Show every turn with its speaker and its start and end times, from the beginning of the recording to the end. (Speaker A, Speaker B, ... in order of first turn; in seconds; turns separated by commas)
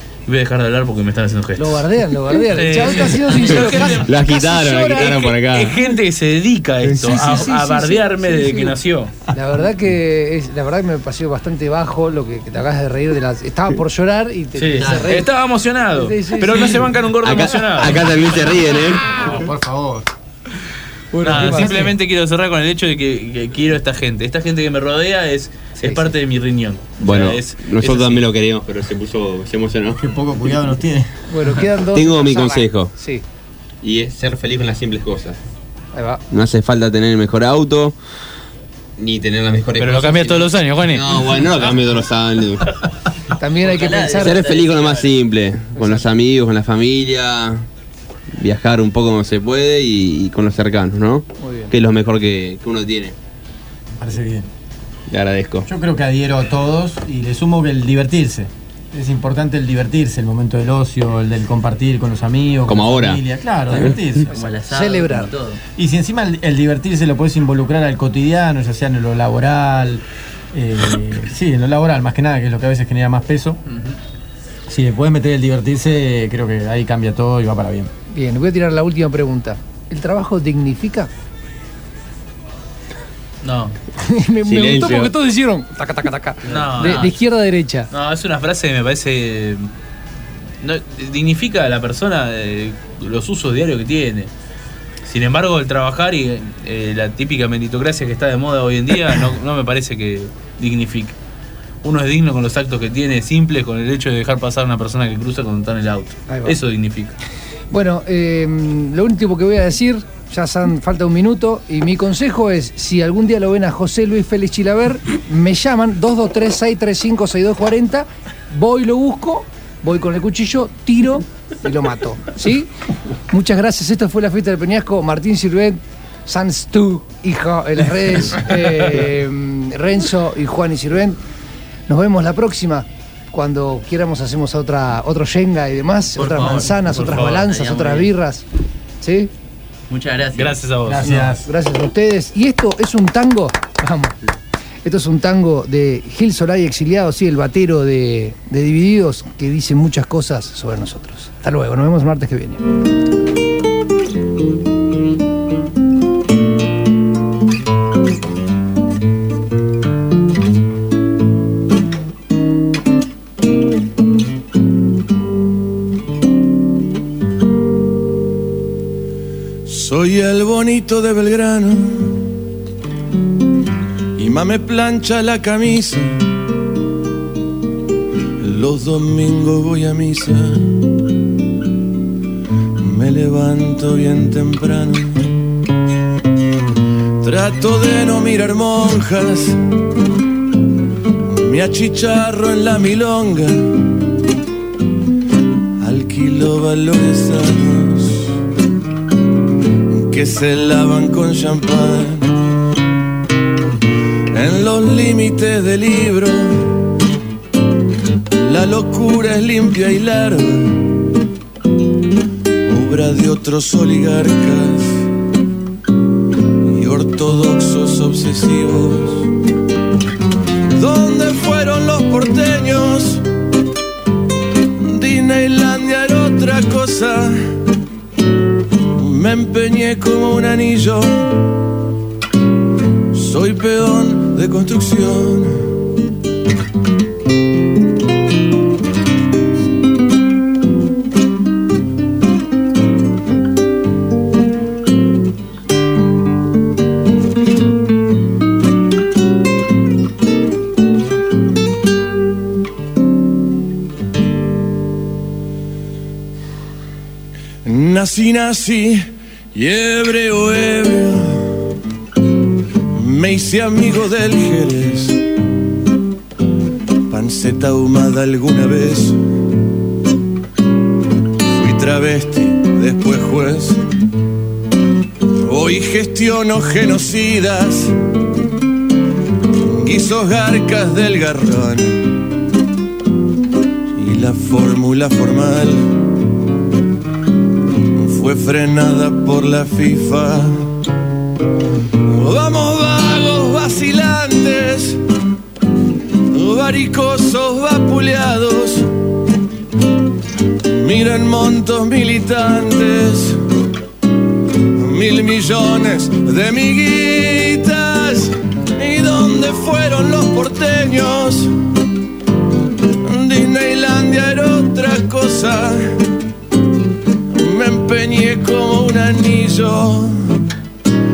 Speaker A: 0.3-4.1, Speaker B: 1.6-5.3, Speaker C: 3.7-5.8, Speaker A: 4.9-9.1, Speaker B: 7.0-8.7, Speaker B: 9.3-15.3, Speaker A: 14.6-18.2, Speaker D: 14.8-15.1, Speaker B: 15.9-16.9, Speaker C: 17.2-19.1, Speaker E: 19.2-20.1, Speaker E: 21.2-21.9, Speaker B: 21.2-21.9, Speaker A: 21.2-28.2, Speaker B: 25.8-26.1, Speaker C: 27.0-30.0, Speaker E: 30.0-31.1, Speaker B: 31.3-33.2, Speaker C: 31.9-32.9, Speaker C: 33.8-35.4, Speaker B: 35.9-36.2, Speaker C: 36.3-37.9, Speaker C: 39.0-42.8, Speaker A: 39.8-41.2, Speaker B: 43.4-44.4, Speaker D: 43.6-45.1, Speaker C: 44.1-47.6, Speaker B: 45.8-46.1, Speaker C: 48.3-53.1, Speaker B: 51.4-51.7, Speaker E: 54.0-54.5, Speaker C: 55.1-55.7, Speaker E: 55.7-64.3, Speaker C: 62.7-63.2, Speaker B: 64.3-65.3, Speaker D: 64.3-65.6, Speaker E: 65.8-73.6, Speaker A: 73.7-74.0, Speaker E: 74.7-77.9, Speaker B: 78.1-81.1, Speaker A: 83.4-83.8, Speaker B: 84.0-87.9, Speaker C: 84.5-85.1, Speaker A: 86.5-87.1, Speaker D: 86.8-87.1, Speaker A: 87.9-89.7, Speaker A: 90.6-94.3, Speaker A: 95.0-101.2, Speaker A: 101.8-107.2, Speaker B: 106.3-106.6, Speaker B: 107.7-122.7, Speaker B: 123.3-131.2, Speaker B: 131.9-138.4, Speaker D: 136.2-138.1, Speaker A: 136.8-137.5, Speaker B: 139.0-139.3, Speaker D: 139.9-140.6, Speaker A: 140.3-141.3, Speaker E: 140.8-141.4, Speaker B: 141.5-144.2, Speaker B: 144.8-152.6, Speaker F: 169.7-172.3, Speaker F: 174.2-176.3, Speaker F: 178.4-180.8, Speaker F: 182.8-185.3, Speaker F: 187.2-189.6, Speaker F: 191.3-193.9, Speaker F: 195.8-198.3, Speaker F: 199.9-202.4, Speaker F: 204.3-206.9, Speaker F: 208.3-211.0, Speaker F: 212.7-215.1, Speaker F: 216.7-219.3, Speaker F: 220.8-223.2, Speaker F: 224.8-227.4, Speaker F: 228.9-231.5, Speaker F: 233.1-235.8, Speaker F: 257.6-261.6, Speaker F: 262.9-265.2, Speaker F: 267.1-269.2, Speaker F: 271.5-273.8, Speaker F: 275.4-277.9, Speaker F: 279.6-282.1, Speaker F: 283.9-285.9, Speaker F: 287.9-290.7, Speaker F: 292.1-295.0, Speaker F: 296.3-298.9, Speaker F: 300.7-303.4, Speaker F: 304.8-311.5, Speaker F: 313.0-316.1, Speaker F: 317.3-320.4